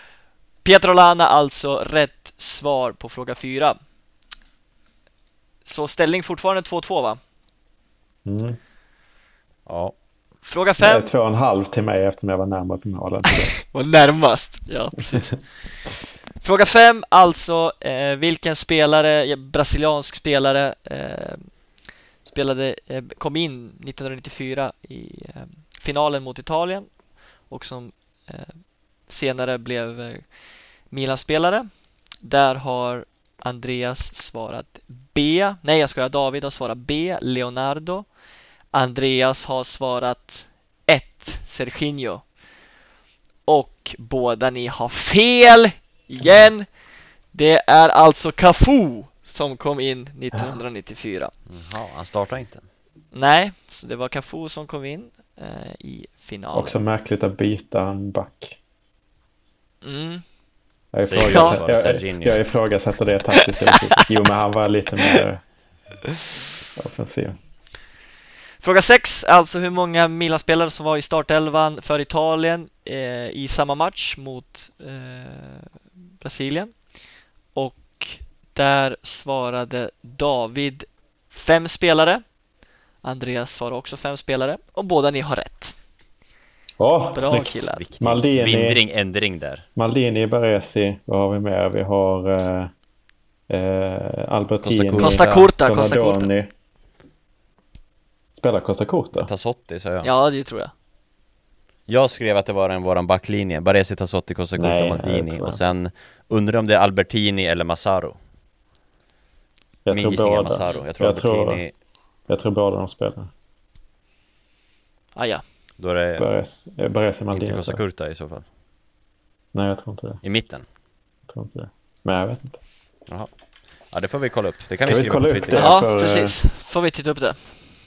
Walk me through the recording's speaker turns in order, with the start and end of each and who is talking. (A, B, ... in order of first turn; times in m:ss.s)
0:00.6-0:03.8 A
0:05.6-0:07.2 A
0:08.2-0:08.6 B
0:09.6-0:09.9 C
0:10.4-0:11.1 A
0:10.8-0:13.5 B
0:13.7-0:15.5 A
0:16.4-0:21.6 A
0:22.2-0:26.9 A
0:27.5-0:30.3 A
0:30.9-0:31.7 A
0:32.2-0:38.1 A
0:38.7-0:42.3 A
0:43.4-0:46.7 A
0:47.3-0:51.3 A
0:51.5-0:52.7 C
0:53.1-0:56.8 A
0:56.5-0:58.6 B
0:59.8-1:00.2 A
1:00.9-1:05.4 B
1:01.0-1:02.4 C
1:01.2-1:01.6 A
1:06.8-1:07.4 B
1:08.6-1:16.8 A
1:17.5-1:22.2 A
1:23.0-1:25.7 A
1:26.8-1:28.8 B
1:27.1-1:27.8 A
1:27.8-1:29.6 C
1:29.8-1:32.7 B
1:33.5-1:36.5 B
1:34.6-1:35.5 C
1:35.0-1:36.3 A
1:38.3-1:39.3 B
1:39.2-1:40.1 C
1:40.0-1:40.7 A
1:41.9-1:48.2 C
1:44.6-1:45.6 B
1:49.8-1:51.6 B
1:49.9-1:51.7 C
1:52.3-1:53.3 B
1:55.1-1:55.4 A
1:55.8-1:56.3 C
1:56.2-1:57.8 B
1:57.3-1:58.4 C
1:59.5-2:00.2 B
2:00.2-2:00.6 C
2:01.3-2:02.6 B
2:03.1-2:03.3 C
2:03.8-2:05.8 C
2:04.8-2:06.4 B
2:05.5-2:07.7 A